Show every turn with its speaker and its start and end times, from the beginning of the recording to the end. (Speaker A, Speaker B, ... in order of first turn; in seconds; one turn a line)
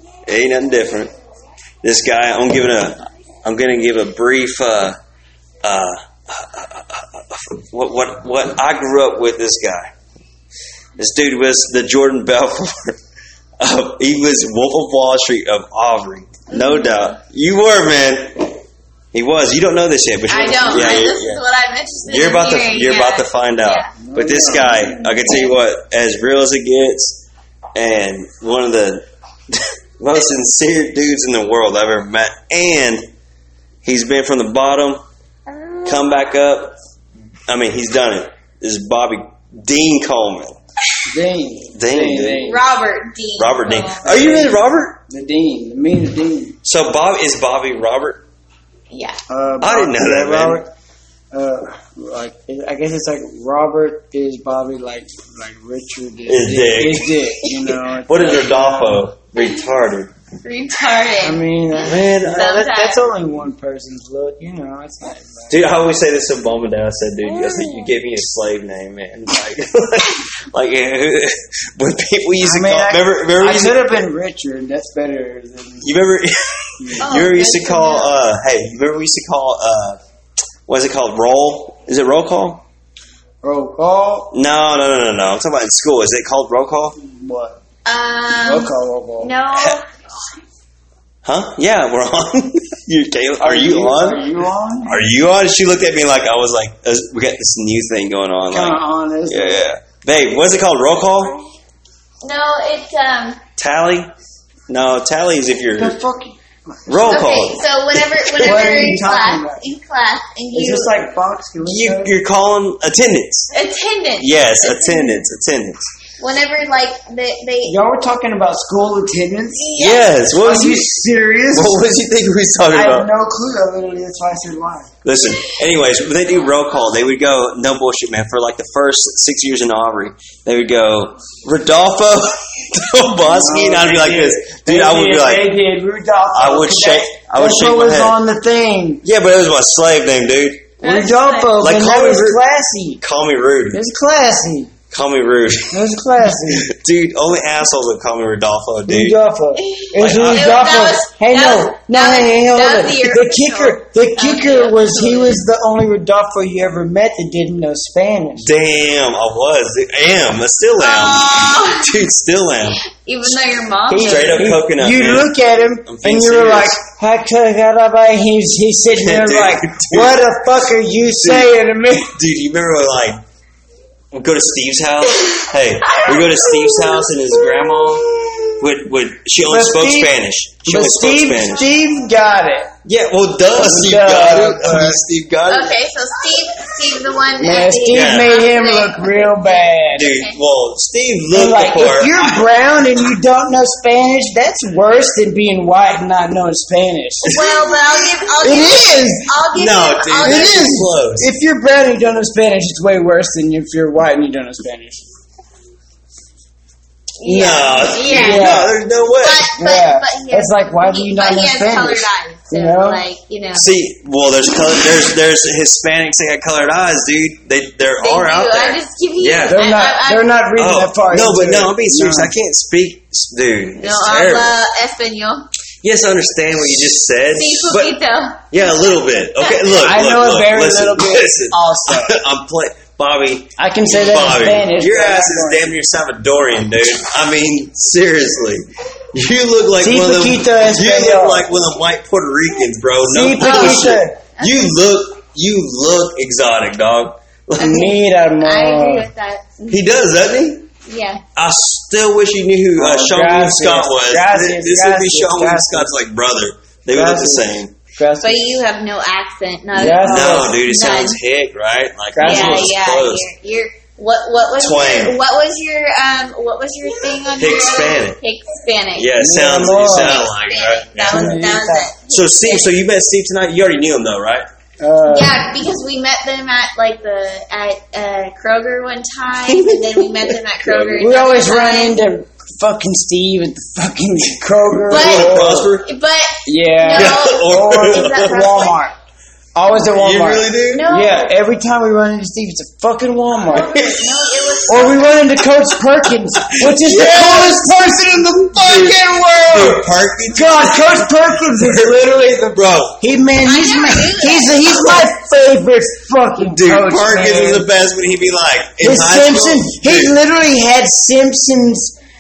Speaker A: 0.3-1.1
Speaker A: 1.8-5.0
Speaker A: 5.6-9.9
Speaker A: 11.0-13.0
Speaker A: 13.6-18.6
Speaker B: 16.5-17.2
Speaker A: 19.1-21.4
Speaker B: 20.3-23.9
Speaker A: 22.1-33.1
Speaker C: 24.0-25.0
Speaker B: 24.5-25.5
Speaker A: 33.8-35.0
Speaker B: 35.5-36.1
Speaker A: 35.9-36.8
Speaker A: 37.5-40.6
Speaker C: 41.1-42.6
Speaker A: 41.7-42.5
Speaker B: 42.4-44.4
Speaker A: 43.4-45.0
Speaker C: 44.1-46.6
Speaker A: 46.6-48.2
Speaker B: 48.9-49.2
Speaker C: 49.3-50.7
Speaker A: 49.6-50.6
Speaker C: 51.3-59.1
Speaker A: 56.3-60.1
Speaker B: 60.4-63.0
Speaker C: 61.2-65.6
Speaker A: 61.9-62.6
Speaker A: 65.5-73.9
Speaker B: 67.3-67.9
Speaker C: 72.4-75.9
Speaker A: 75.8-80.0
Speaker C: 76.8-77.2
Speaker B: 77.0-78.2
Speaker A: 80.7-82.7
Speaker C: 83.4-84.3
Speaker A: 84.3-87.0
Speaker C: 87.0-87.6
Speaker B: 87.8-89.8
Speaker C: 88.3-89.3
Speaker A: 89.5-89.8
Speaker A: 91.2-94.2
Speaker C: 93.4-95.0
Speaker A: 94.9-101.4
Speaker C: 98.5-99.6
Speaker B: 102.2-103.4
Speaker A: 103.6-104.1
Speaker A: 104.7-106.0
Speaker C: 105.8-106.9
Speaker A: 106.9-109.0
Speaker B: 106.9-111.0
Speaker C: 108.4-109.6
Speaker C: 110.5-112.1
Speaker A: 111.6-113.5
Speaker B: 113.5-115.2
Speaker A: 114.2-115.9
Speaker B: 116.2-117.8
Speaker C: 117.6-119.7
Speaker B: 119.6-120.2
Speaker A: 119.8-121.0
Speaker C: 120.3-121.8
Speaker A: 121.5-123.1
Speaker C: 122.7-124.9
Speaker A: 125.0-135.6
Speaker C: 133.2-139.0
Speaker A: 136.3-138.2
Speaker A: 139.0-140.8
Speaker B: 140.8-141.5
Speaker C: 140.8-143.0
Speaker A: 141.6-142.4
Speaker A: 143.0-143.8
Speaker C: 143.7-144.7
Speaker A: 144.9-145.8
Speaker C: 145.7-146.7
Speaker A: 146.5-149.2
Speaker C: 148.9-158.5
Speaker B: 149.6-155.4
Speaker A: 150.0-150.9
Speaker A: 158.4-163.4
Speaker B: 160.8-162.0
Speaker B: 162.8-164.4
Speaker C: 163.9-172.1
Speaker A: 163.9-165.3
Speaker A: 165.9-166.8
Speaker A: 169.0-170.4
Speaker A: 171.2-173.2
Speaker A: 174.1-178.0
Speaker B: 175.8-177.2
Speaker C: 178.1-178.5
Speaker A: 178.6-181.7
Speaker C: 179.4-180.1
Speaker C: 180.7-182.7
Speaker A: 182.8-185.8
Speaker C: 183.5-185.0
Speaker B: 185.5-190.3
Speaker C: 187.4-190.1
Speaker A: 187.9-188.3
Speaker A: 189.9-192.5
Speaker C: 191.3-197.3
Speaker A: 197.2-198.0
Speaker B: 197.2-200.7
Speaker C: 198.4-199.3
Speaker A: 199.5-201.3
Speaker C: 200.2-205.1
Speaker B: 207.2-213.7
Speaker A: 207.2-209.5
Speaker C: 208.1-208.8
Speaker C: 209.6-213.0
Speaker A: 213.5-219.6
Speaker B: 218.0-220.3
Speaker C: 219.5-222.3
Speaker A: 220.6-224.6
Speaker B: 223.8-225.5
Speaker A: 225.8-228.0
Speaker B: 227.3-228.6
Speaker A: 228.5-247.9
Speaker B: 229.3-229.8
Speaker C: 229.7-232.2
Speaker C: 233.6-235.7
Speaker C: 239.8-241.5
Speaker C: 243.1-244.2
Speaker B: 243.4-244.8
Speaker C: 247.6-249.1
Speaker B: 247.6-249.8
Speaker A: 249.7-250.7
Speaker B: 250.9-251.2
Speaker A: 251.4-257.7
Speaker C: 252.8-256.0
Speaker C: 256.9-258.4
Speaker B: 258.2-261.2
Speaker C: 259.7-260.6
Speaker A: 259.8-263.3
Speaker C: 262.1-262.7
Speaker B: 262.2-269.1
Speaker A: 264.6-265.2
Speaker A: 267.4-268.2
Speaker A: 268.9-271.5
Speaker C: 269.2-270.3
Speaker B: 269.7-272.7
Speaker C: 271.1-271.9
Speaker A: 272.1-274.4
Speaker C: 274.8-275.5
Speaker B: 275.1-282.0
Speaker A: 279.5-281.1
Speaker C: 281.0-285.7
Speaker A: 284.8-285.9
Speaker B: 284.9-288.8
Speaker C: 286.4-288.9
Speaker A: 286.9-288.7
Speaker C: 289.6-293.8
Speaker A: 289.7-290.9
Speaker B: 290.7-291.3
Speaker B: 293.5-295.2
Speaker A: 293.5-294.6
Speaker C: 294.7-307.7
Speaker A: 296.5-297.7
Speaker A: 298.5-303.0
Speaker B: 303.4-305.0
Speaker A: 306.4-310.1
Speaker C: 308.8-311.9